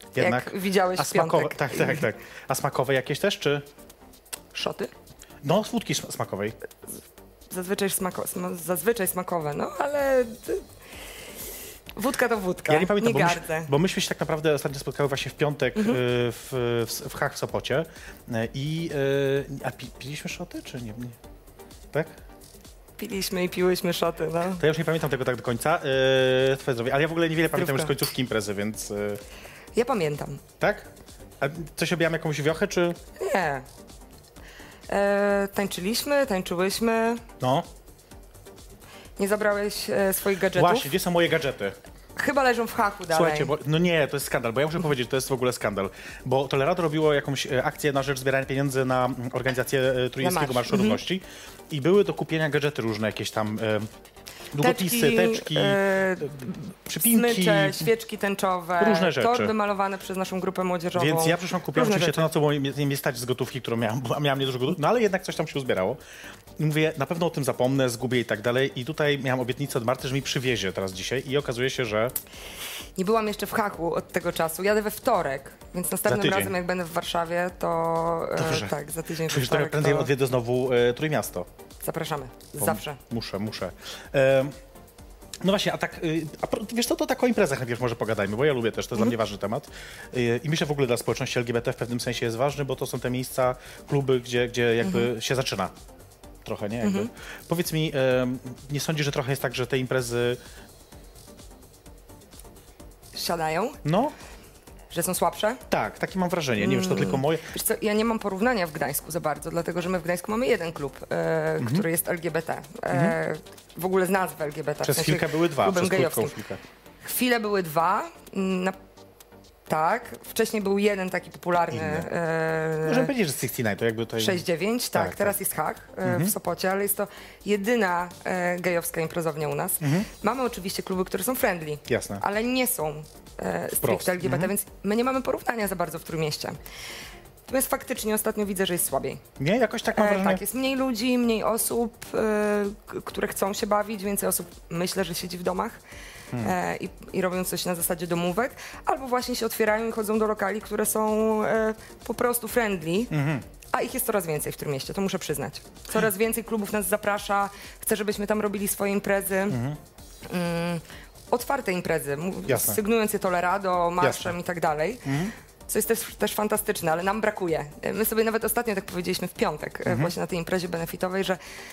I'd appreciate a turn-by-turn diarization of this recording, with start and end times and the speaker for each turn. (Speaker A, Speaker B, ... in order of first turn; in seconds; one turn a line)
Speaker A: 0.1-3.7
Speaker B: 0.2-2.0
Speaker B: 4.5-4.9
Speaker A: 5.4-6.6
Speaker B: 7.5-10.7
Speaker B: 12.0-13.7
Speaker A: 12.7-21.2
Speaker A: 21.9-22.2
Speaker B: 23.0-24.6
Speaker A: 24.6-29.2
Speaker B: 27.5-28.0
Speaker B: 29.8-30.4
Speaker A: 30.6-33.0
Speaker B: 33.2-33.6
Speaker B: 34.9-37.2
Speaker A: 37.4-37.7
Speaker B: 39.2-40.9
Speaker A: 40.5-41.8
Speaker B: 42.2-43.5
Speaker A: 43.1-53.9
Speaker B: 50.2-51.0
Speaker A: 54.5-57.9
Speaker B: 54.6-62.3
Speaker A: 58.8-59.5
Speaker A: 60.9-66.0
Speaker A: 66.6-72.1
Speaker B: 73.0-80.1
Speaker A: 76.1-76.5
Speaker A: 78.4-78.7
Speaker A: 79.2-81.5
Speaker B: 81.8-83.0
Speaker A: 82.6-84.6
Speaker A: 85.4-95.7
Speaker B: 94.8-95.1
Speaker A: 96.4-100.4
Speaker B: 96.8-97.1
Speaker B: 103.2-103.8
Speaker A: 103.8-104.1
Speaker B: 104.9-105.6
Speaker A: 105.7-107.5
Speaker B: 106.6-116.3
Speaker A: 111.6-111.9
Speaker A: 114.8-116.6
Speaker B: 117.0-118.8
Speaker B: 119.7-123.1
Speaker A: 121.7-122.1
Speaker A: 122.8-125.4
Speaker B: 124.2-136.6
Speaker A: 126.0-126.3
Speaker A: 129.8-130.1
Speaker A: 131.9-132.2
Speaker A: 133.8-134.5
Speaker B: 137.5-139.2
Speaker A: 139.4-140.4
Speaker B: 139.9-145.8
Speaker B: 146.4-153.1
Speaker A: 153.1-153.4
Speaker B: 153.7-159.6
Speaker A: 159.5-159.8
Speaker B: 160.3-171.4
Speaker A: 162.5-162.8
Speaker A: 164.0-164.3
Speaker A: 165.1-165.3
Speaker A: 169.9-170.1